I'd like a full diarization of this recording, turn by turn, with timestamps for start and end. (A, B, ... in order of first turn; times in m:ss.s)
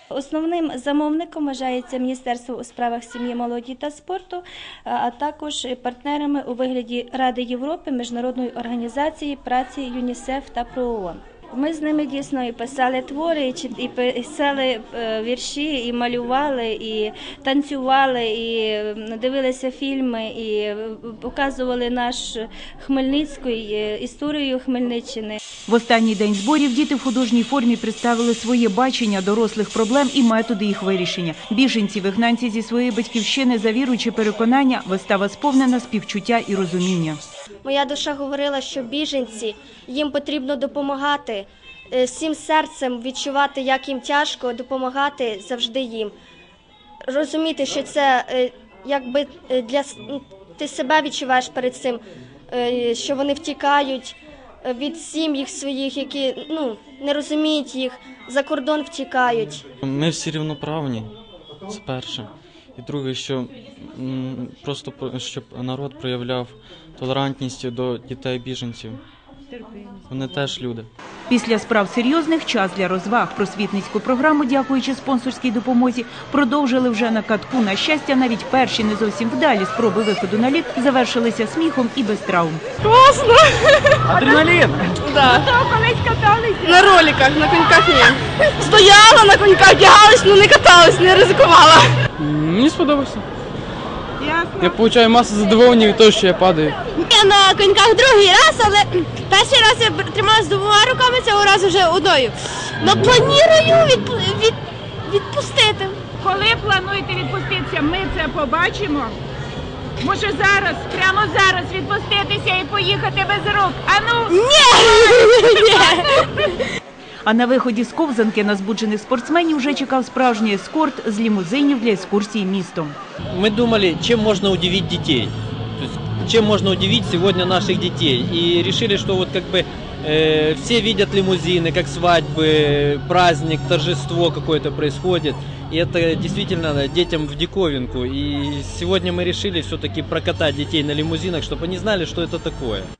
0:00.1-0:25.4 A
0:25.7-0:37.2 B
0:37.6-0:46.1 C
0:47.1-0:59.6 C
0:59.8-1:01.1 D
1:01.7-1:09.0 D
1:10.1-1:10.9 D
1:11.3-1:22.6 B
1:22.8-1:24.1 E
1:24.1-1:26.9 F
1:24.2-1:24.8 B
1:25.0-1:25.5 E
1:26.6-1:32.0 E
1:32.2-1:33.2 G
1:34.2-1:34.8 F
1:34.6-1:36.8 G
1:36.9-1:46.0 E
1:46.2-1:49.1 F
1:50.0-1:56.2 F
1:54.3-1:56.2 E
1:57.2-2:03.0 B
2:03.3-2:22.9 H